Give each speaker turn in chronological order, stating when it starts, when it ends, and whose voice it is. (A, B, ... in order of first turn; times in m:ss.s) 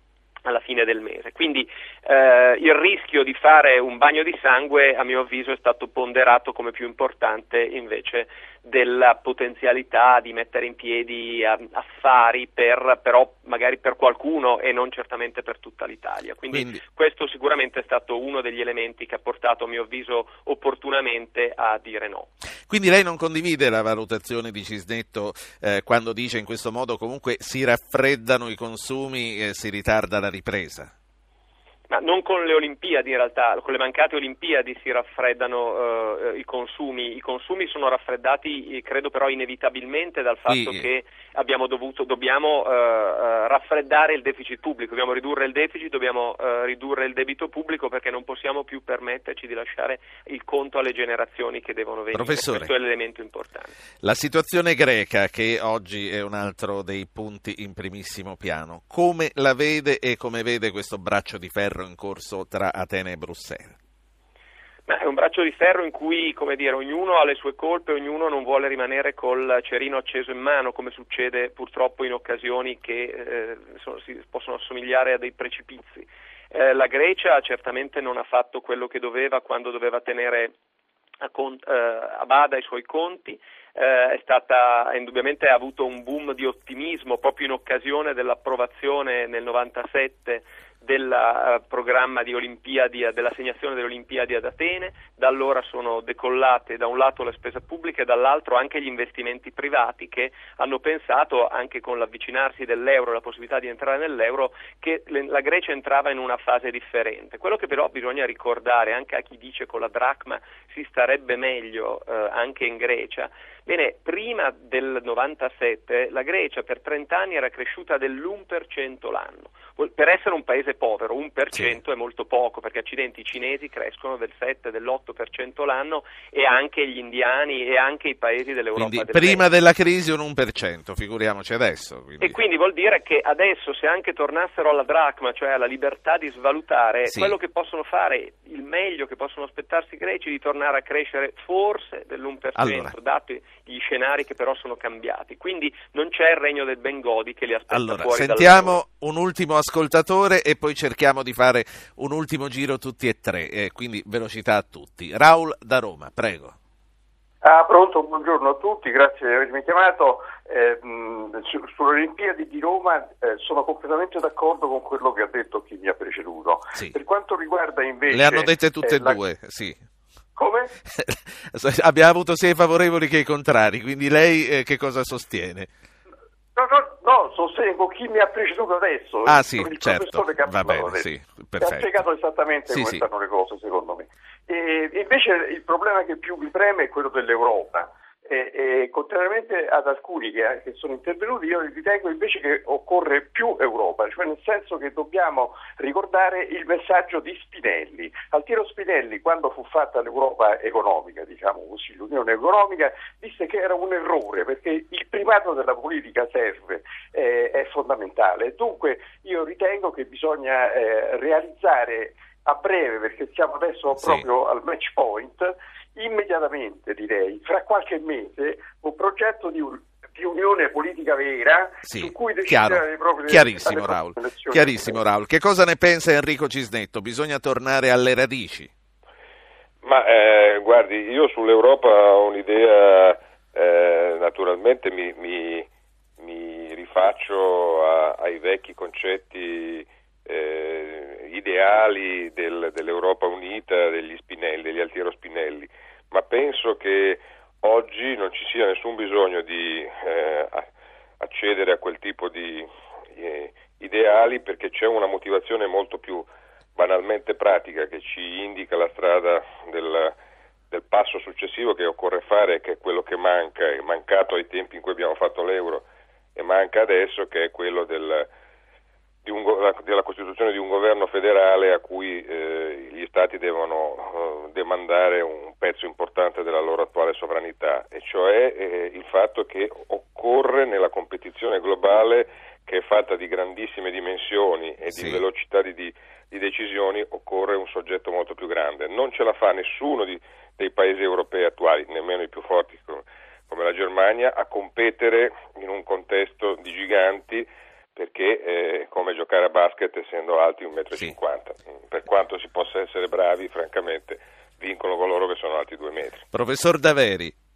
0:00.4-0:22.3 A
0:16.5-0:16.8 B
0:22.7-0:30.9 B
0:31.9-0:53.8 A
0:40.5-0:40.8 B
0:52.1-0:52.7 B
0:54.0-1:03.8 B
1:04.9-1:20.5 A
1:21.2-2:09.5 A
2:08.8-2:12.4 B
2:12.2-2:28.8 A
2:22.6-2:22.9 B
2:27.7-2:36.5 B
2:37.4-2:49.2 C
2:48.1-2:49.8 B
2:50.4-2:50.7 C
2:50.9-2:55.7 B
2:56.6-3:01.1 C
2:59.2-3:02.0 B
3:01.6-3:45.0 C
3:02.7-3:03.1 B
3:33.9-3:34.3 B
3:41.8-3:48.7 B
3:49.8-3:55.7 D
3:56.2-4:10.7 D
4:11.2-4:20.2 D
4:20.7-4:25.8 D
4:26.4-4:28.3 D
4:29.2-5:06.2 D
4:44.9-4:45.2 B
5:06.3-5:07.3 B